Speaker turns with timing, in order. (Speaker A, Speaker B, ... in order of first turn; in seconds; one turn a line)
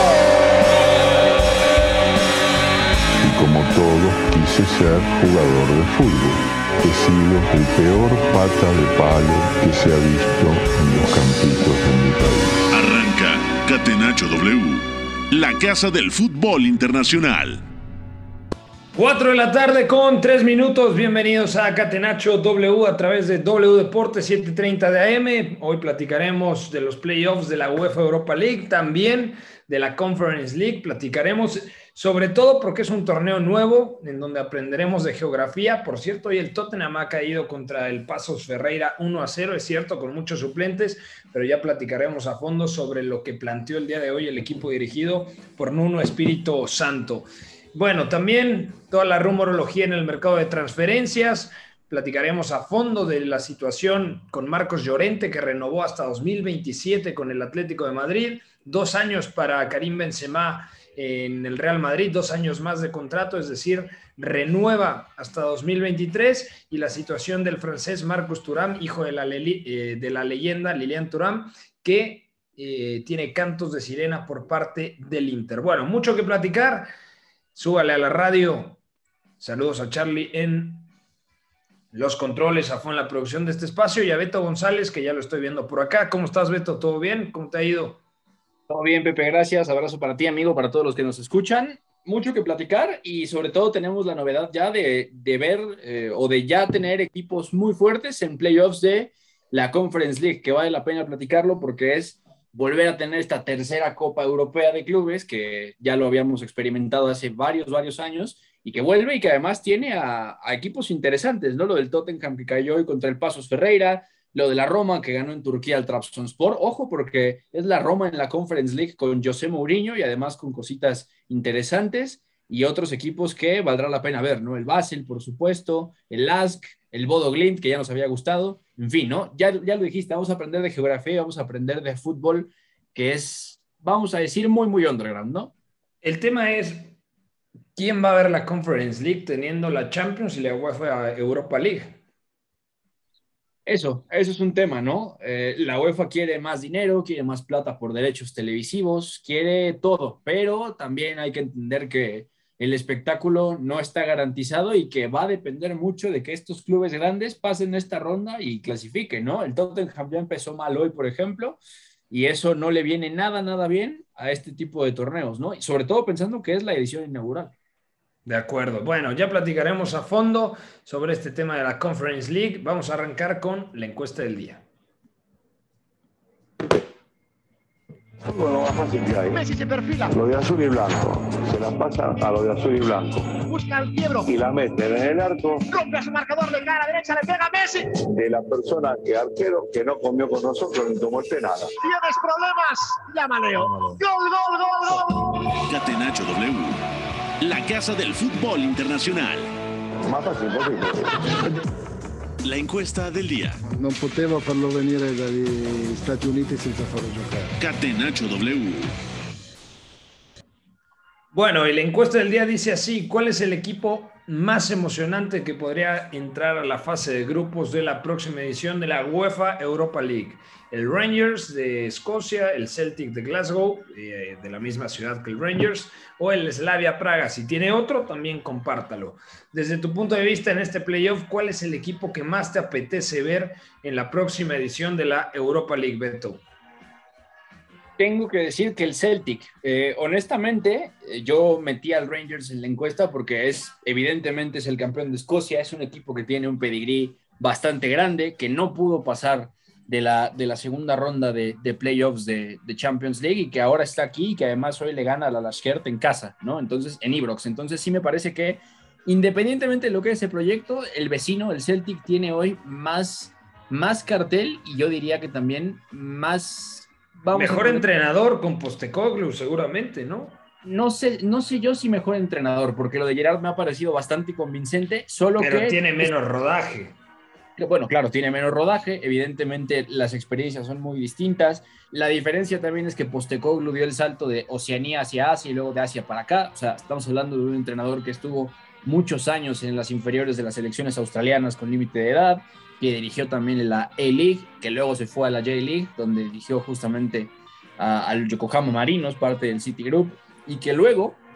Speaker A: 3.2-12.6
Speaker B: 12.7-17.6
Speaker C: 18.9-76.9
Speaker C: 77.5-78.8
Speaker C: 79.4-80.9
Speaker C: 81.9-88.0
Speaker D: 88.7-135.5
Speaker C: 136.0-136.9
Speaker C: 137.8-142.0
Speaker D: 143.7-161.6
Speaker D: 162.1-167.5
Speaker C: 168.2-174.6
Speaker E: 178.2-179.4
Speaker F: 179.3-180.1
Speaker E: 180.1-183.3
Speaker F: 183.4-184.3
Speaker E: 184.3-185.6
Speaker F: 185.7-187.9
Speaker E: 188.0-191.7
Speaker F: 191.8-195.5
Speaker B: 195.7-196.8
Speaker B: 197.4-199.5
Speaker E: 200.0-201.4
Speaker B: 202.4-203.6
Speaker G: 203.6-207.5
Speaker B: 207.6-208.9
Speaker C: 211.3-236.4
Speaker D: 238.0-267.9
Speaker C: 267.3-270.4
Speaker D: 270.6-276.1
Speaker C: 275.4-276.9
Speaker D: 277.6-301.2